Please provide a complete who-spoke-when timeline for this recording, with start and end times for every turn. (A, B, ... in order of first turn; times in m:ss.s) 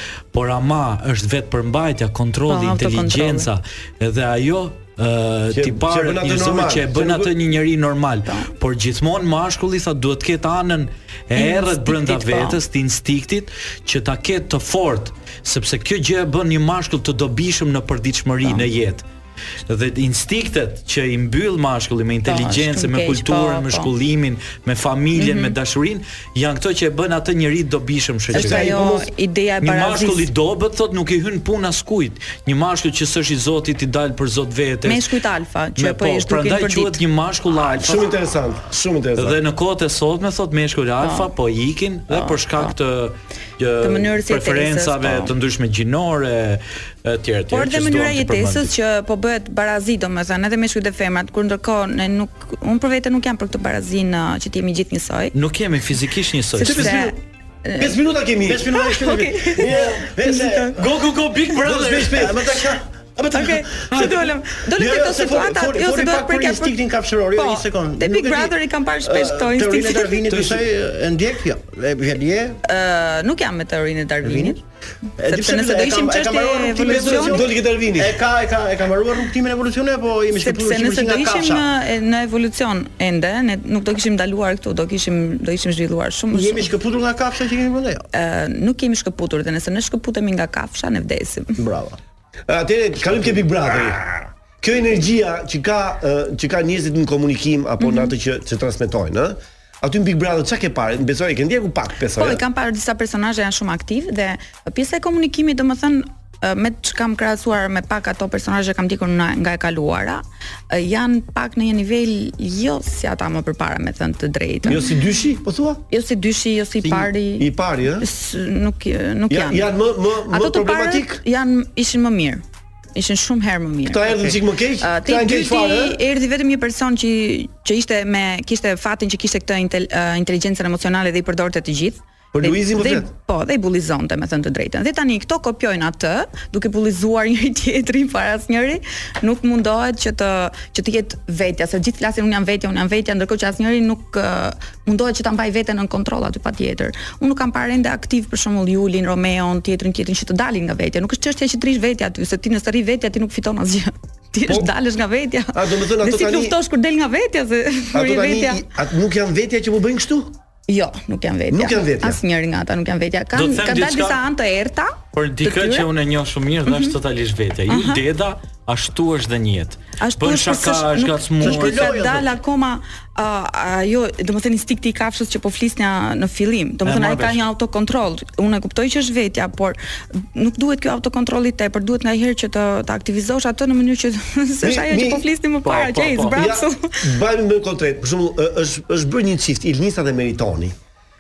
0:00.3-0:19.0 A
0:02.5-0:03.5 B
0:05.5-0:07.4 C
0:11.4-0:12.6 B
0:19.7-0:28.7 A
0:22.2-0:23.9 B
0:25.2-0:25.6 B
0:28.3-0:29.1 C
0:28.3-0:30.3 B
0:29.6-0:35.1 A
0:34.8-0:37.0 B
0:35.8-0:38.1 A
0:37.7-0:39.4 C
0:39.2-0:48.7 A
0:41.0-0:41.3 B
0:42.1-0:42.7 B
0:43.8-0:45.3 B
0:47.5-0:55.3 B
0:55.3-0:57.0 A
0:56.6-0:58.0 B
0:56.6-0:57.1 C
0:57.8-0:58.8 C
0:58.5-1:00.8 D
0:58.7-1:00.8 B
0:59.6-1:00.0 C
1:00.8-1:02.3 A
1:01.6-1:02.5 C
1:01.9-1:04.2 D
1:03.3-1:06.8 B
1:04.8-1:12.6 D
1:07.3-1:10.2 B
1:10.3-1:10.6 C
1:12.7-1:14.6 B
1:14.2-1:14.6 D
1:15.2-1:21.7 D
1:15.2-1:17.4 B
1:16.9-1:18.2 C
1:20.3-1:26.7 B
1:26.3-1:28.1 D
1:28.1-1:31.6 B
1:31.6-1:32.0 D
1:32.5-1:34.1 C
1:34.6-1:42.4 C
1:37.8-1:38.1 B
1:42.1-1:54.9 B
1:54.6-1:55.8 C
1:55.9-1:57.5 B
1:57.4-1:58.1 C
1:58.0-1:59.7 B
1:59.3-2:01.2 C
2:00.3-2:02.4 B
2:03.0-2:04.2 B
2:03.9-2:06.0 C
2:04.8-2:38.6 B
2:12.3-2:13.1 C
2:35.5-2:36.6 C
2:37.9-2:40.4 C
2:40.7-2:45.9 B
2:41.5-2:42.2 C
2:43.3-2:44.2 A
2:45.1-2:52.0 A
2:46.7-2:47.0 B
2:47.7-2:48.0 B
2:50.0-3:07.0 B
2:51.4-2:52.3 D
2:56.8-2:57.4 A
3:04.6-3:05.2 C
3:05.6-3:06.4 A
3:06.4-3:10.8 C